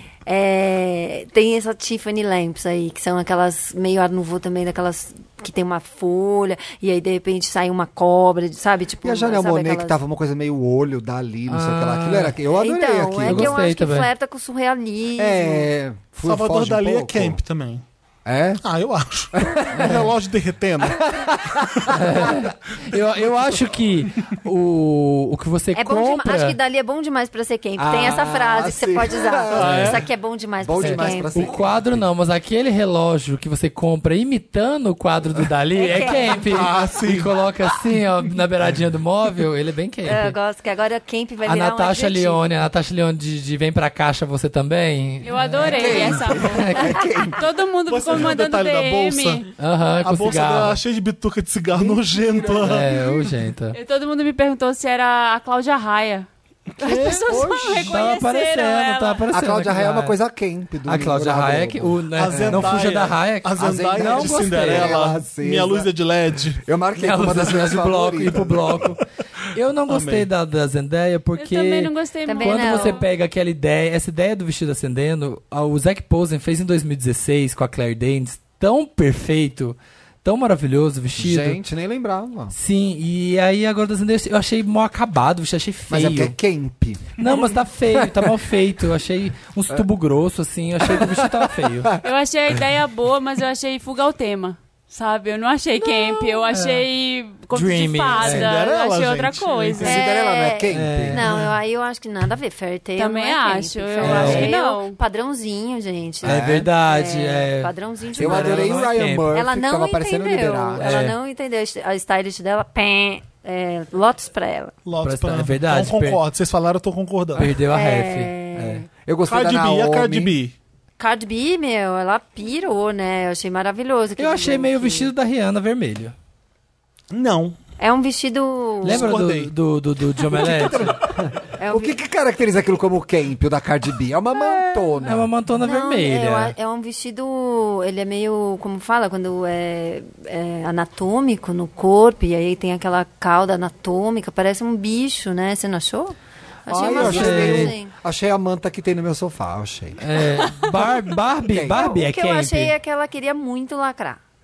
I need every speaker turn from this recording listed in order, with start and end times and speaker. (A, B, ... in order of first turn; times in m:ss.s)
0:00.3-0:10.0 A
0:09.0-0:13.6 B
0:11.5-0:12.4 C
0:12.5-0:15.7 A
0:13.2-0:14.1 C
0:15.2-0:17.4 B
0:16.2-0:17.8 D
0:18.2-0:18.6 B
0:18.6-0:21.1 D
0:19.4-0:20.1 B
0:21.1-0:22.3 B
0:21.9-0:26.6 C
0:25.8-0:31.4 A
0:27.8-0:30.0 B
0:29.5-0:30.0 D
0:29.6-0:30.0 C
0:30.6-0:32.1 B
0:30.8-0:40.4 C
0:35.8-0:36.5 A
0:36.3-0:37.4 D
0:40.1-0:42.4 A
0:41.4-0:47.0 C
0:45.2-0:49.5 E
0:45.6-0:47.4 B
0:47.9-0:49.5 D
0:49.6-0:50.8 C
0:50.0-0:53.0 D
0:51.7-0:52.8 B
0:52.6-0:53.8 C
0:53.7-0:56.3 E
0:56.8-0:57.5 D
0:56.8-0:59.2 E
0:56.8-0:58.0 B
0:57.9-1:00.2 C
0:59.3-1:02.8 B
1:00.8-1:04.9 C
1:02.1-1:06.6 D
1:03.6-1:05.9 B
1:06.6-1:08.9 B
1:07.0-1:21.6 C
1:09.9-1:10.3 D
1:11.4-1:13.0 E
1:12.3-1:13.0 A
1:21.2-1:22.5 B
1:22.5-1:26.4 C
1:25.9-1:27.2 B
1:27.2-1:31.9 C
1:27.9-1:28.3 B
1:30.8-1:32.0 B
1:32.0-1:40.0 E
1:36.5-1:36.8 C
1:37.5-1:38.5 C
1:38.2-1:39.9 D
1:39.8-1:41.4 B
1:39.8-1:54.8 A
1:40.7-1:41.2 C
1:43.0-1:45.0 E
1:44.0-1:44.5 C
1:46.2-1:46.7 B
1:46.2-1:49.4 C
1:48.2-1:51.0 B
1:50.8-1:51.2 C
1:54.8-1:57.5 D
1:55.0-1:56.2 C
1:57.4-1:58.8 C
1:57.6-1:58.9 A
1:59.1-2:00.3 B
1:59.3-2:00.6 D
2:01.0-2:05.1 A
2:04.2-2:06.2 C
2:07.1-2:07.6 D
2:07.8-2:09.1 A
2:08.8-2:11.0 C
2:08.8-2:09.5 D
2:10.4-2:15.3 B
2:10.4-2:10.9 D
2:11.6-2:12.0 A
2:14.4-2:14.9 A
2:15.0-2:16.5 C
2:15.6-2:27.9 A
2:26.7-2:30.0 B
2:26.8-2:27.8 C
2:30.0-2:32.7 C
2:31.5-2:32.0 B
2:31.7-2:34.2 A